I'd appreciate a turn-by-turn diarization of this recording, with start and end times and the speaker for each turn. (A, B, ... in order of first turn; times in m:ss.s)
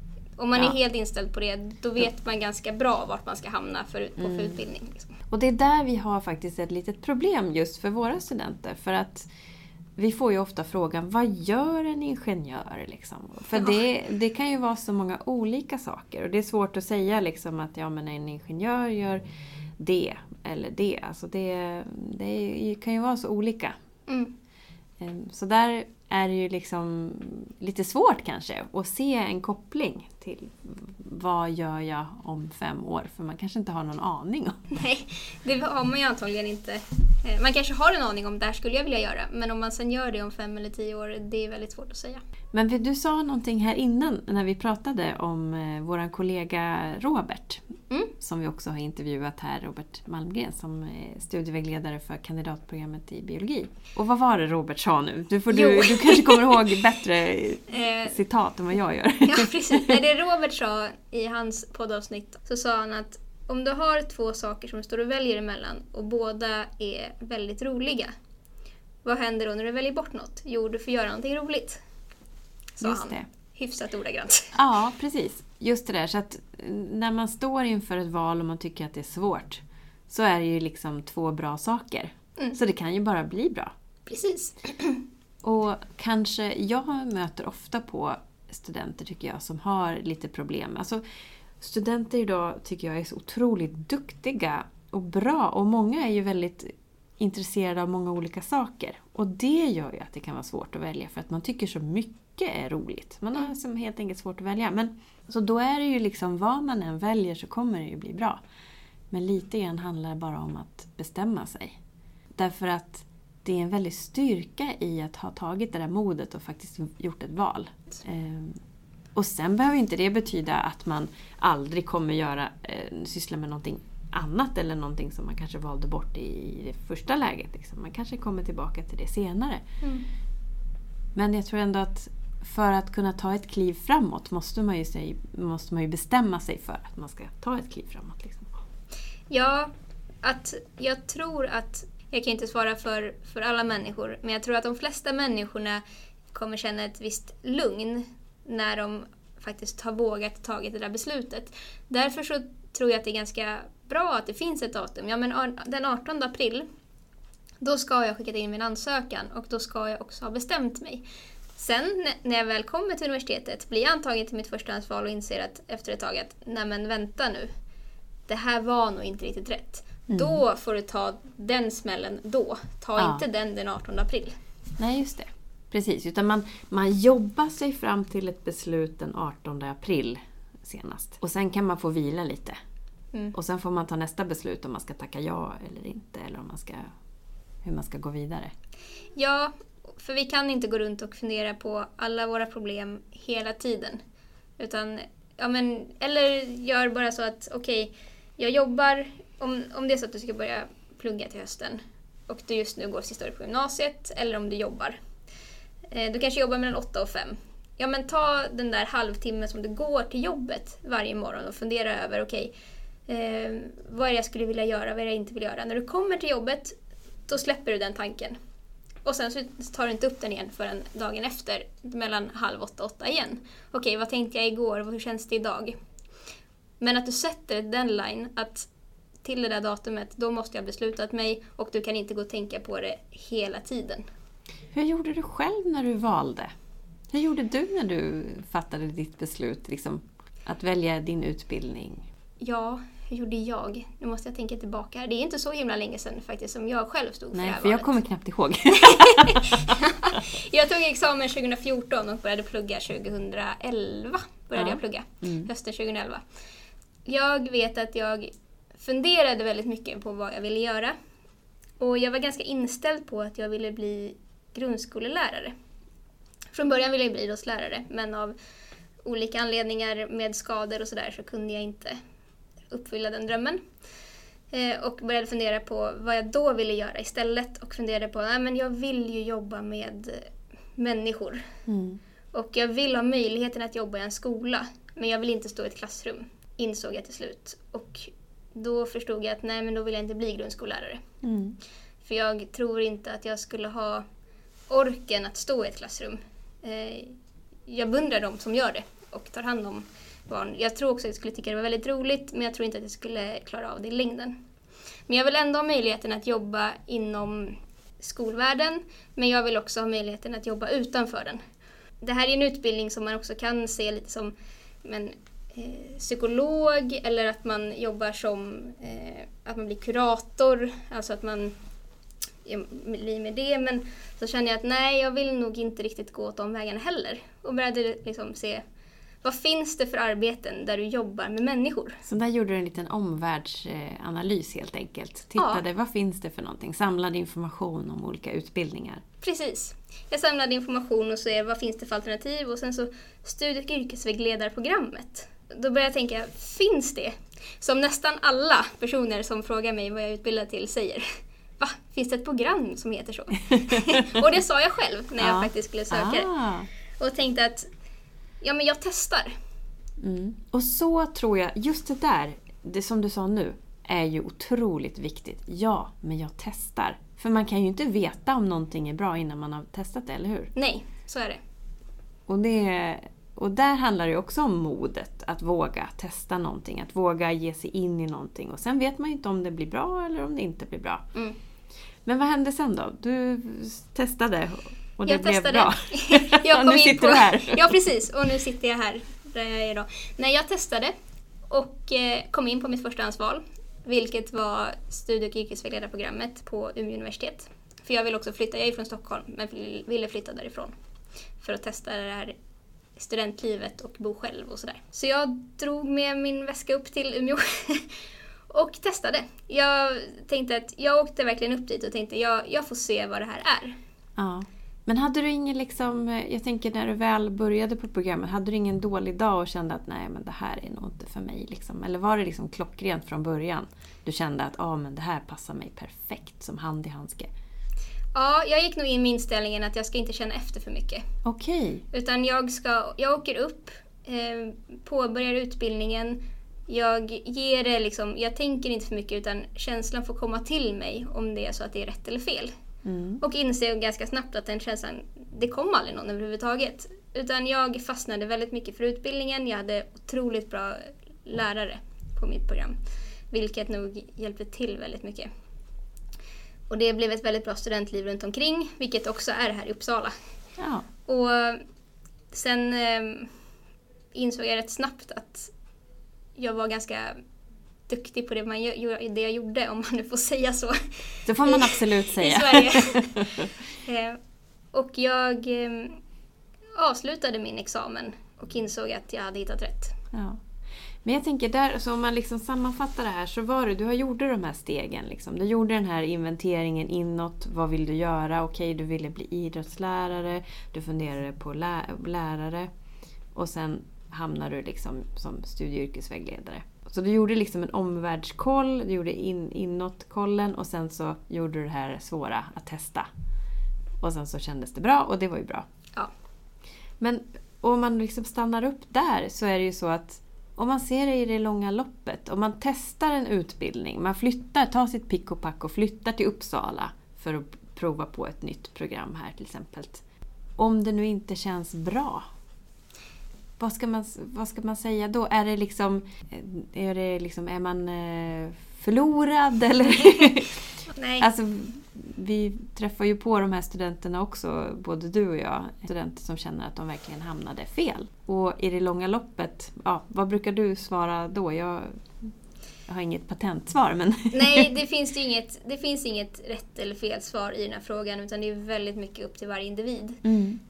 0:00.4-0:05.2 A
0:04.2-0:04.6 B
0:05.3-0:09.3 B
0:10.0-0:19.2 B
0:13.5-0:13.8 A
0:19.8-0:23.7 B
0:24.1-0:24.3 A
0:25.0-0:34.6 B
0:34.7-0:42.2 A
0:42.5-0:47.6 B
0:48.2-1:00.0 B
0:55.5-0:56.6 A
0:57.7-0:58.2 A
0:59.2-1:08.1 A
1:09.0-1:11.8 A
1:12.8-1:14.5 A
1:12.8-1:13.2 B
1:14.5-1:23.7 B
1:24.0-1:25.0 A
1:25.4-1:31.0 B
1:31.6-1:48.4 B
1:49.1-1:51.8 B
1:52.4-1:58.6 B
1:59.1-2:09.6 B
2:11.1-2:18.5 B
2:19.3-2:19.7 A
2:20.2-2:25.8 A
2:26.3-2:36.6 A
2:37.6-2:41.0 A
2:41.6-2:47.5 A
2:48.3-2:54.4 A
2:50.1-2:50.4 B
2:53.0-2:53.2 B
2:54.8-3:02.6 B
3:03.3-3:06.9 B
3:07.6-3:08.5 B
3:09.2-3:14.0 A
3:14.6-3:25.0 A
3:25.9-3:32.5 A
3:33.1-3:38.4 A
3:39.0-3:45.7 A
3:46.8-3:48.7 A
3:49.2-3:54.0 A
3:54.7-3:56.5 B
3:57.1-4:02.0 B
4:02.4-4:08.0 A
4:07.3-4:10.1 B
4:08.8-4:16.2 A
4:14.6-4:15.5 B
4:17.0-4:20.9 A
4:21.8-4:25.5 A
4:26.5-4:28.3 A
4:29.0-4:32.0 A
4:32.7-4:33.6 A
4:34.5-4:41.4 A
4:41.7-4:42.0 B
4:42.3-4:51.0 A
4:51.2-4:51.6 B
4:52.0-4:54.0 A
4:54.7-4:57.1 A
4:57.7-5:04.3 A
5:05.1-5:11.4 A
5:12.0-5:14.3 A
5:14.8-5:21.5 A
5:22.4-5:28.6 A
5:29.2-5:32.0 A
5:32.0-5:39.0 B
5:35.4-5:35.6 A
5:39.2-5:51.0 A
5:51.6-5:56.3 A
5:55.2-5:56.7 B
5:57.0-5:57.7 A
5:58.4-5:59.3 A
6:00.0-6:10.5 B
6:10.6-6:11.4 A
6:12.3-6:21.0 B
6:22.0-6:27.7 B
6:25.0-6:30.9 A
6:31.5-6:40.7 A
6:41.4-6:42.3 A
6:43.0-6:48.0 A
6:48.5-6:53.8 A
6:54.2-7:07.3 B
7:08.1-7:11.0 A
7:11.2-7:11.8 B
7:11.9-7:16.2 A
7:16.7-7:22.5 A
7:22.8-7:23.2 B
7:23.2-7:32.8 A
7:33.3-7:35.3 A
7:36.7-7:40.1 A
7:40.6-7:40.8 B
7:41.0-7:41.6 A
7:42.3-7:43.3 A
7:44.1-7:45.5 A
7:46.4-7:47.2 A
7:47.9-7:54.2 A
7:51.3-7:53.5 B
7:54.7-7:56.0 A
7:56.8-8:00.0 A
8:00.1-8:00.4 B
8:01.0-8:12.7 B
8:13.3-8:23.1 B
8:24.0-8:25.6 B
8:27.0-8:40.0 B
8:40.6-8:42.2 B
8:43.6-9:02.3 B
8:50.9-8:51.3 A
9:02.9-9:04.7 B
9:04.3-9:10.2 A
9:10.2-9:10.6 B